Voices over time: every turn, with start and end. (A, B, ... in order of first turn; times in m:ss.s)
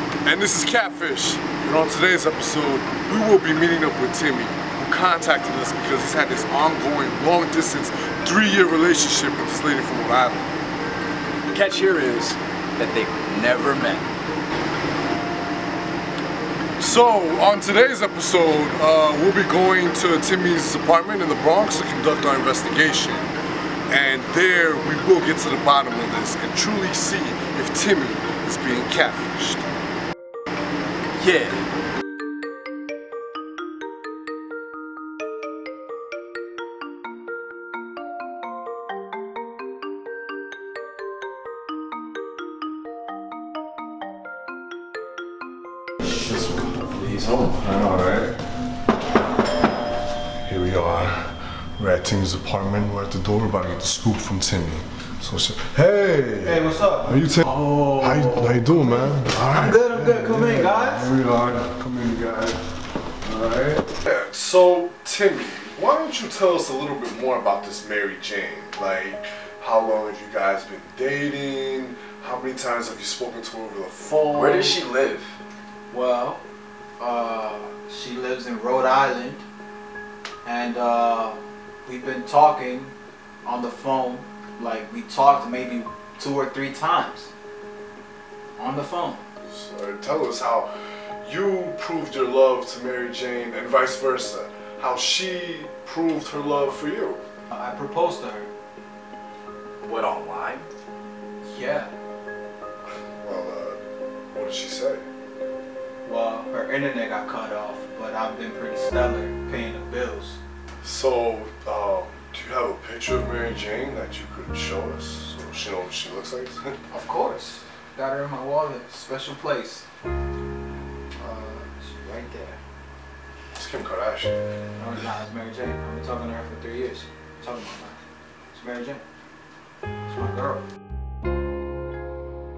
0:00.2-0:10.5 A
0:11.5-0:14.1 B
0:16.8-0:23.3 A
0:23.9-0:29.7 A
0:31.2-0:31.6 B
0:46.0-0:47.8 B
0:47.6-0:48.4 A
0:50.4-1:02.6 A
0:56.4-0:57.3 C
0:57.5-0:58.1 B
0:58.0-1:01.1 C
1:03.2-1:14.8 A
1:14.3-1:15.3 B
1:15.9-1:16.4 C
1:17.0-1:19.4 C
1:20.4-1:27.3 C
1:28.6-1:29.2 C
1:29.4-1:30.7 A
1:31.2-1:37.2 A
1:37.5-1:38.5 C
1:39.8-1:40.7 B
1:41.4-1:41.9 C
1:43.0-1:43.8 A
1:44.3-1:45.0 A
1:46.0-1:50.4 C
1:50.8-1:56.8 A
1:56.9-1:59.8 C
2:01.2-2:02.6 C
2:03.5-2:04.4 A
2:04.8-2:08.0 C
2:08.5-2:09.0 C
2:10.0-2:10.6 C